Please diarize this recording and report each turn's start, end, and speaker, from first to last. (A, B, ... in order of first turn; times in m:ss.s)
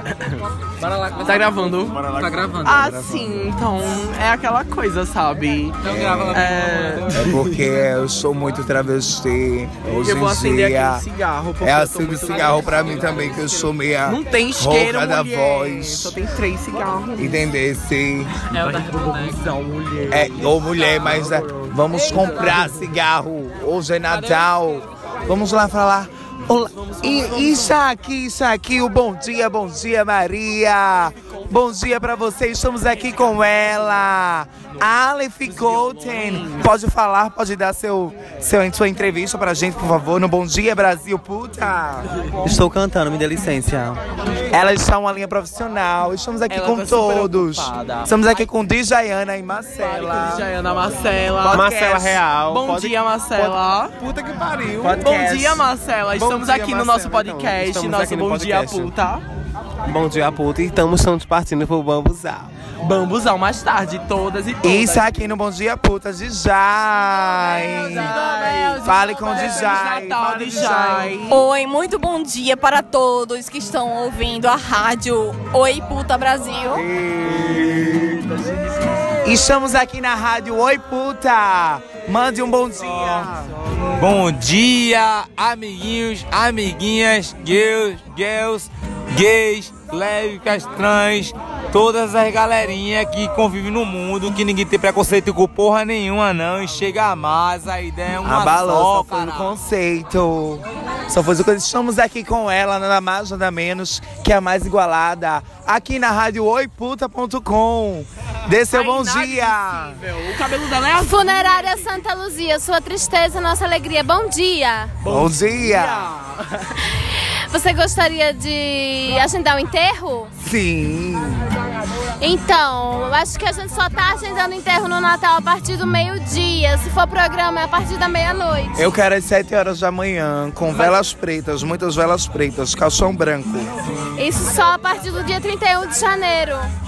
0:00.8-0:02.9 A
0:01.2-0:02.1 B
0:02.6-0:05.8 B
0:03.0-0:03.3 C
0:05.8-0:07.4 A
0:05.8-0:06.5 C
0:06.3-0:07.2 B
0:07.1-0:11.0 C
0:09.8-0:13.4 B
0:11.6-0:16.2 C
0:12.5-0:13.7 A
0:14.0-0:17.5 B
0:17.2-0:18.5 C
0:18.6-0:19.6 A
0:18.6-0:22.7 B
0:20.1-0:42.5 C
0:24.1-0:24.5 B
0:26.8-0:27.8 B
0:33.1-0:33.5 B
0:35.4-0:36.7 B
0:42.4-0:44.0 D
0:44.5-0:50.5 C
0:46.5-0:48.4 B
0:49.8-0:53.9 B
0:54.0-0:55.0 D
0:54.8-0:55.6 C
0:54.9-0:59.2 B
0:56.2-0:58.9 D
0:59.9-1:02.5 D
1:02.8-1:05.3 B
1:04.6-1:11.5 C
1:07.5-1:11.3 B
1:11.3-1:16.8 E
1:16.7-1:18.2 C
1:18.3-1:18.6 B
1:19.2-1:23.5 C
1:24.0-1:39.6 F
1:38.2-1:50.0 C
1:48.7-1:51.8 B
1:51.0-1:54.9 G
1:55.0-1:56.7 B
1:55.1-1:56.1 C
1:57.0-2:00.3 G
2:00.4-2:01.5 C
2:02.2-2:08.9 G
2:08.8-2:13.7 C
2:14.2-2:16.7 G